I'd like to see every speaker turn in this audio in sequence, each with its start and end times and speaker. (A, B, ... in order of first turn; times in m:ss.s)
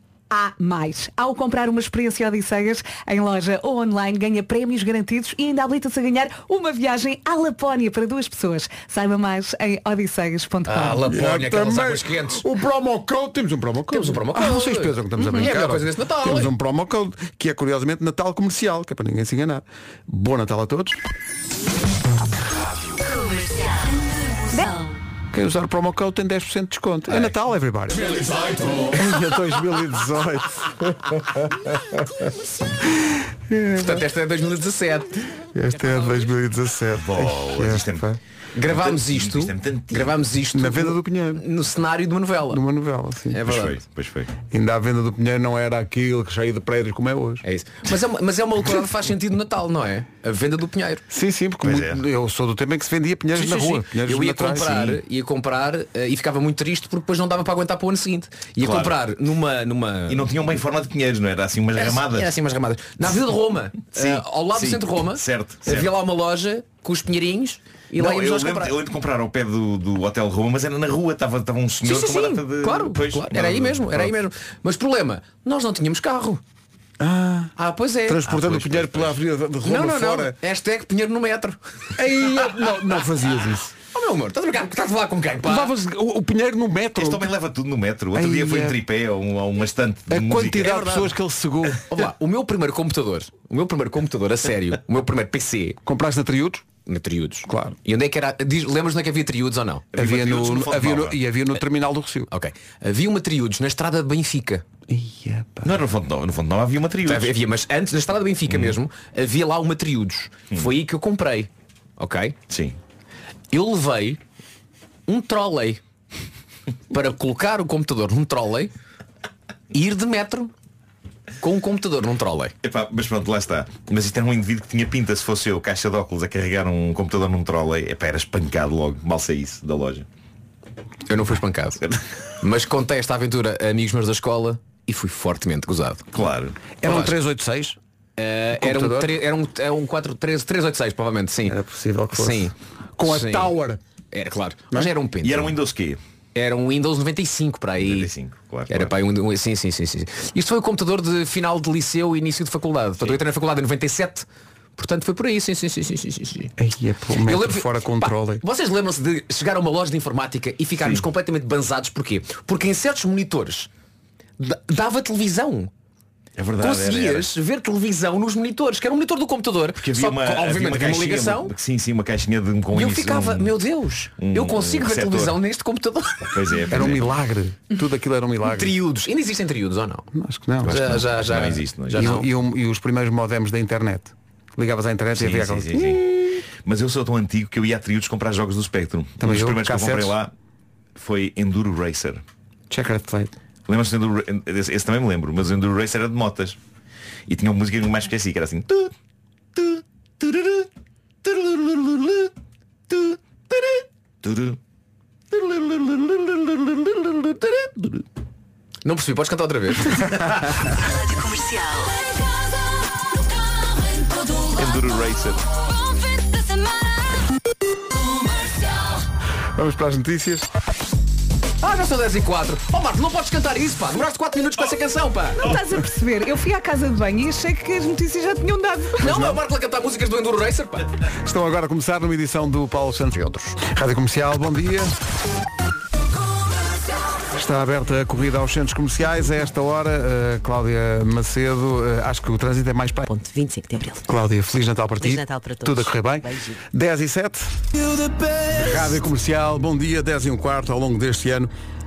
0:00.3-0:11.0 A
0:10.7-0:12.4 B
0:11.1-0:21.0 C
0:13.9-0:16.5 B
0:25.3-0:28.1 C
0:28.0-0:29.0 B
0:28.9-0:32.0 C
0:33.0-0:34.0 C
0:33.8-0:35.3 B
0:35.5-0:38.2 C
0:37.0-0:38.1 D
0:38.6-0:42.6 B
0:38.7-0:40.2 D
0:40.5-0:41.4 C
0:42.5-0:43.4 C
0:43.3-0:43.8 B
0:43.4-0:44.3 D
0:44.5-0:47.4 C
0:47.4-0:51.0 B
0:51.1-0:55.0 C
0:51.6-0:52.0 D
0:53.4-1:00.4 B
0:58.6-0:59.0 D
1:00.1-1:02.3 D
1:01.8-1:08.8 B
1:03.9-1:05.9 D
1:08.0-1:14.2 D
1:11.8-1:16.4 B
1:17.0-1:17.5 C
1:17.6-1:19.1 B
1:18.1-1:20.4 C
1:18.4-1:19.0 D
1:19.6-1:21.6 B
1:22.0-1:23.8 C
1:23.9-1:25.7 B
1:25.4-1:27.3 C
1:27.0-1:31.0 D
1:28.1-1:28.8 C
1:30.1-1:31.8 C
1:30.6-1:31.0 B
1:31.9-1:35.8 B
1:35.8-1:36.6 C
1:36.9-1:39.9 B
1:37.5-1:37.8 C
1:39.9-1:41.2 D
1:40.0-1:42.3 C
1:42.3-1:44.6 B
1:44.9-1:45.8 C
1:45.6-1:47.3 D
1:47.1-1:52.4 B
1:48.5-1:48.8 D
1:52.5-1:52.8 D
1:53.5-1:54.2 B
1:55.1-1:55.8 B
1:56.9-1:58.7 B
1:59.7-2:00.5 B
2:01.4-2:02.5 B
2:02.6-2:10.1 D
2:11.1-2:11.8 B
2:12.4-2:16.1 B
2:16.1-2:16.7 D
2:16.8-2:17.8 C
2:16.8-2:17.1 B
2:18.2-2:21.6 B
2:18.6-2:19.2 C
2:21.5-2:23.8 C
2:22.1-2:23.5 B
2:24.1-2:25.6 B
2:25.2-2:26.0 D
2:26.4-2:28.1 B
2:27.8-2:29.0 D
2:28.7-2:34.3 B
2:34.8-2:36.5 B
2:36.6-2:38.4 C
2:37.2-2:43.7 B
2:40.8-2:41.1 D
2:44.4-2:45.7 B
2:46.4-2:47.3 D
2:46.6-2:51.5 B
2:49.8-2:53.5 D
2:52.7-2:56.4 B
2:54.2-2:55.4 D
2:56.3-2:57.1 D
2:56.7-2:58.8 C
2:58.5-3:00.1 B
3:00.1-3:01.0 C
3:00.6-3:02.3 B
3:00.7-3:02.1 D
3:02.0-3:06.0 C
3:05.2-3:10.3 D
3:09.2-3:10.2 C
3:11.0-3:12.2 D
3:12.7-3:13.4 C
3:13.7-3:16.6 D
3:17.3-3:18.9 D
3:19.6-3:20.7 D
3:21.2-3:22.3 D
3:22.9-3:24.6 D
3:28.8-3:30.4 B
3:34.5-3:35.4 D
3:39.6-3:40.5 C
3:41.6-3:45.4 B
3:45.4-3:49.2 A
3:49.0-3:50.9 B
3:49.0-3:49.4 C
3:51.2-3:54.9 C
3:57.3-4:03.0 C
4:03.1-4:04.0 E
4:04.1-4:07.5 C
4:05.0-4:06.6 E
4:08.5-4:11.5 C